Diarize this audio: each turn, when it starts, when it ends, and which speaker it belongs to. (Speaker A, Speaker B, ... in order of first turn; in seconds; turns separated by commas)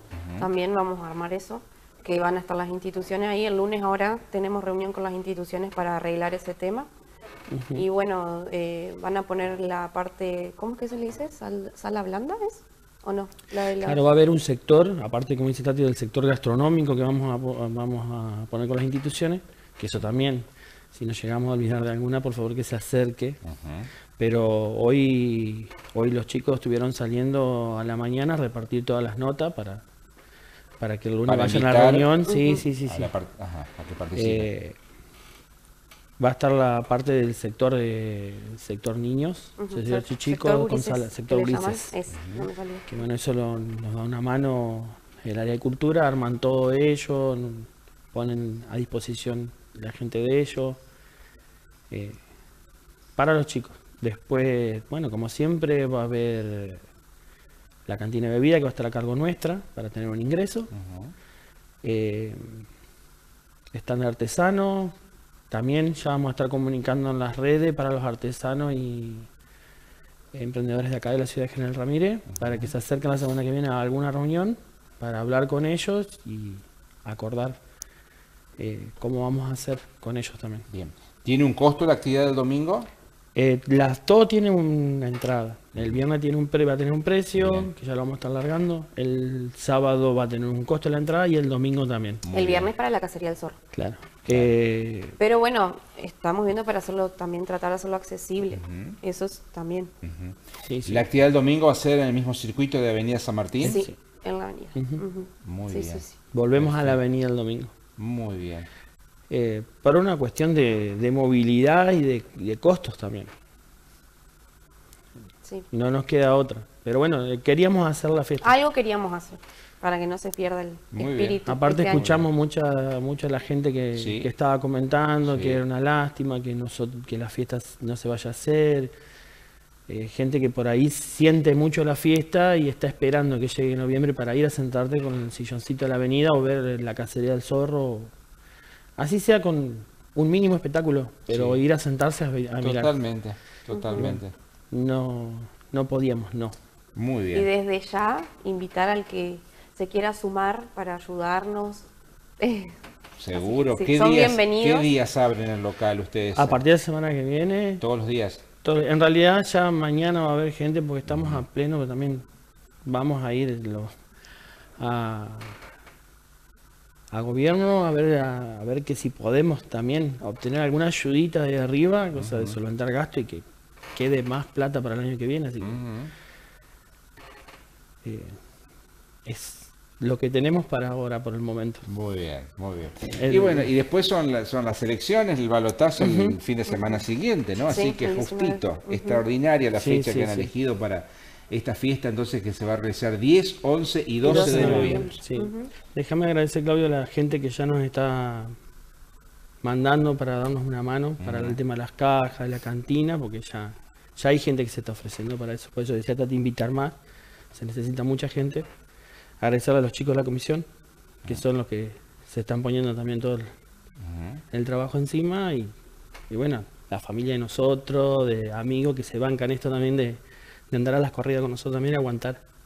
Speaker A: 0.1-0.5, Speaker B: 0.4-6.9, Speaker C: 7.5-7.9, Speaker B: 7.8-14.1, Speaker C: 13.8-23.4, Speaker A: 23.4-23.9, Speaker C: 24.1-29.8, Speaker C: 30.8-33.1, Speaker A: 31.2-32.1, Speaker B: 32.2-32.7, Speaker A: 32.8-34.5, Speaker C: 34.1-34.8, Speaker C: 36.2-41.9, Speaker B: 39.6-42.9, Speaker A: 42.1-42.5, Speaker C: 42.9-50.8, Speaker C: 51.9-52.2, Speaker C: 53.1-56.8, Speaker C: 57.9-60.7, Speaker A: 60.7-61.1, Speaker C: 61.8-62.6, Speaker C: 63.7-65.0, Speaker C: 65.5-69.3, Speaker C: 70.3-77.6, Speaker A: 72.3-72.7, Speaker C: 78.6-80.7, Speaker A: 80.7-82.9, Speaker C: 83.3-92.2, Speaker A: 85.7-86.0, Speaker A: 87.4-87.7, Speaker A: 92.2-92.7, Speaker B: 92.3-93.6, Speaker C: 93.7-95.2, Speaker A: 94.2-94.5, Speaker B: 95.2-99.9, Speaker A: 98.5-99.0, Speaker A: 100.0-103.8, Speaker C: 100.6-101.0, Speaker C: 103.6-103.9, Speaker B: 103.6-106.2, Speaker C: 104.7-105.0, Speaker A: 105.4-107.0, Speaker C: 106.2-107.7, Speaker A: 108.0-108.7, Speaker C: 109.3-113.3, Speaker C: 115.7-118.6, Speaker B: 118.4-122.1, Speaker A: 120.9-122.3, Speaker C: 121.4-128.9, Speaker A: 123.9-124.3, Speaker A: 125.2-125.6, Speaker C: 129.9-138.1, Speaker C: 139.0-142.9, Speaker A: 141.3-141.6, Speaker A: 142.6-144.3, Speaker B: 143.7-144.1, Speaker C: 143.9-146.6, Speaker A: 146.9-147.5, Speaker B: 147.3-151.9, Speaker B: 152.4-152.7, Speaker A: 153.2-156.6, Speaker B: 153.3-154.9, Speaker C: 156.3-157.8, Speaker A: 157.8-158.5, Speaker C: 158.6-162.2, Speaker A: 161.1-161.4, Speaker C: 162.8-163.9, Speaker C: 164.8-165.6, Speaker C: 167.1-175.8, Speaker A: 172.1-172.6, Speaker A: 175.6-176.1, Speaker C: 178.0-178.4, Speaker C: 179.2-181.8, Speaker A: 181.8-195.2, Speaker C: 183.1-183.7, Speaker C: 186.0-186.4, Speaker B: 186.7-187.0, Speaker B: 187.7-189.2, Speaker C: 189.8-190.5, Speaker B: 194.2-195.7, Speaker C: 194.2-198.5, Speaker C: 199.6-207.0, Speaker A: 201.2-201.6, Speaker C: 207.5-208.7, Speaker C: 209.4-210.7, Speaker C: 211.3-213.5, Speaker A: 214.0-214.4, Speaker C: 214.5-215.7, Speaker C: 216.3-222.4